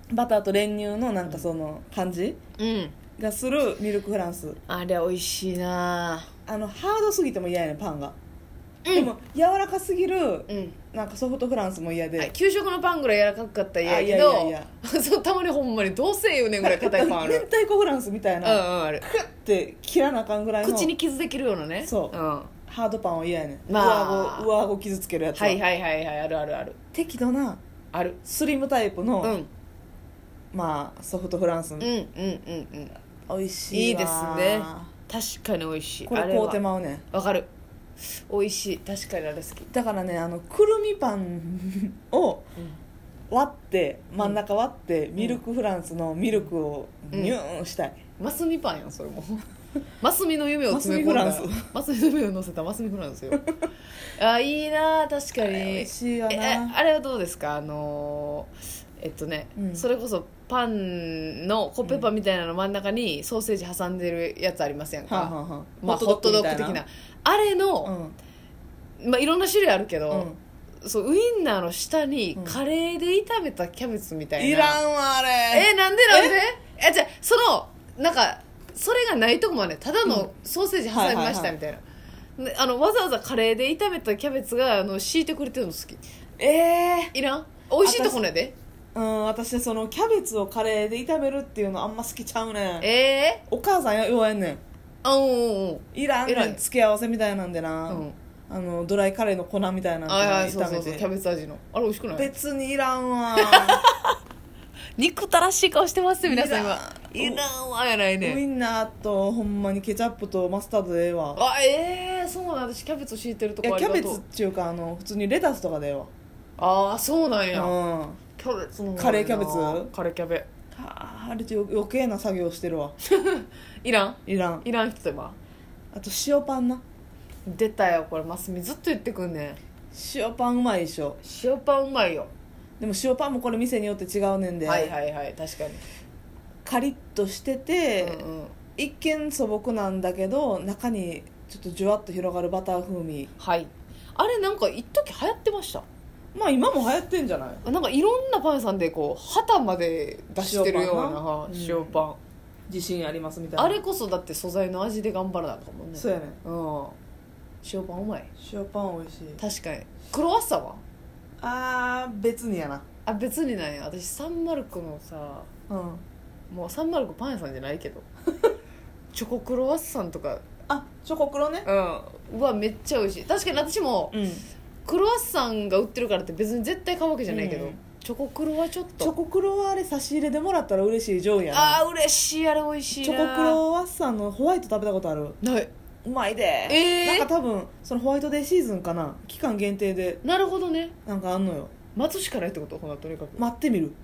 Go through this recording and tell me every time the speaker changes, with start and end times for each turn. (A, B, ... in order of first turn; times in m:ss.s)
0:00.1-0:02.4 A
0:02.6-0:03.0 B
0:03.2-0:04.6 A
0:04.7-0:06.3 B
0:06.5-0:08.2 A
0:08.8-0:09.1 B
0:08.9-0:12.3 A
0:10.5-0:10.8 B
0:12.2-0:17.4 B
0:13.8-0:14.7 A
0:16.6-0:20.9 A
0:18.4-0:19.0 B
0:20.6-0:22.5 B
0:21.8-0:22.1 A
0:22.7-0:25.6 A
0:23.7-0:24.5 B
0:25.3-0:26.8 B
0:26.9-0:27.6 A
0:27.9-0:28.2 B
0:28.2-0:29.4 A
0:29.2-0:29.5 B
0:30.5-0:31.9 A
0:31.8-0:32.9 B
0:33.3-0:34.9 A
0:33.7-0:37.5 B
0:36.1-0:37.0 A
0:38.2-0:39.7 B
0:39.7-0:42.4 A
0:43.3-0:48.0 A
0:47.1-0:47.4 B
0:48.2-0:49.4 B
0:50.0-0:53.4 B
0:50.7-0:51.7 A
0:54.1-1:07.9 B
0:55.4-0:56.8 A
0:59.6-0:59.8 A
1:01.8-1:02.1 A
1:05.1-1:06.8 A
1:07.8-1:08.2 A
1:09.0-1:10.3 B
1:10.1-1:10.4 A
1:10.8-1:14.8 B
1:14.4-1:16.4 A
1:15.5-1:21.8 B
1:20.0-1:20.3 A
1:20.9-1:21.6 A
1:22.4-1:26.0 B
1:26.4-1:27.1 A
1:27.1-1:28.5 B
1:27.8-1:28.2 A
1:28.9-1:32.9 A
1:32.8-1:33.4 B
1:33.5-1:34.6 A
1:35.0-1:36.6 B
1:35.9-1:41.0 A
1:37.9-1:38.2 B
1:40.1-1:42.3 B
1:42.1-1:43.8 A
1:43.3-1:44.2 B
1:45.0-1:48.4 B
1:46.2-1:47.4 A
1:48.2-1:51.4 A
1:51.3-1:54.2 B
1:53.6-1:56.1 A
1:56.6-1:57.8 B
1:57.5-1:58.2 A
1:58.4-2:00.5 B
1:59.0-1:59.9 A
2:00.7-2:03.0 A
2:03.0-2:05.4 B
2:04.2-2:04.6 A
2:05.9-2:06.8 A
2:07.4-2:09.6 B
2:09.9-2:11.2 A
2:11.2-2:12.3 B
2:12.8-2:14.9 A
2:14.6-2:15.8 B
2:16.6-2:18.2 A
2:18.0-2:18.6 B
2:18.8-2:23.3 A
2:23.4-2:25.8 B
2:26.3-2:27.6 A
2:27.6-2:32.2 B
2:30.4-2:32.0 A
2:32.7-2:33.8 A
2:33.6-2:37.0 B
2:36.0-2:36.4 A
2:37.6-2:38.3 B
2:38.4-2:39.4 A
2:39.4-2:40.8 B
2:41.4-2:42.8 A
2:43.0-2:45.5 B
2:45.7-2:46.0 A
2:46.5-2:48.0 B
2:49.1-2:50.4 B
2:50.7-2:51.7 A
2:51.6-2:54.2 B
2:54.1-2:54.4 A
2:54.8-2:59.1 B
2:57.3-2:57.8 A
2:59.0-3:01.8 A
3:01.5-3:03.6 B
3:03.0-3:05.4 A
3:05.4-3:05.7 B
3:06.0-3:10.2 A
3:06.7-3:07.3 B
3:10.2-3:10.9 B
3:11.0-3:11.7 A
3:11.9-3:13.5 B
3:13.4-3:14.0 A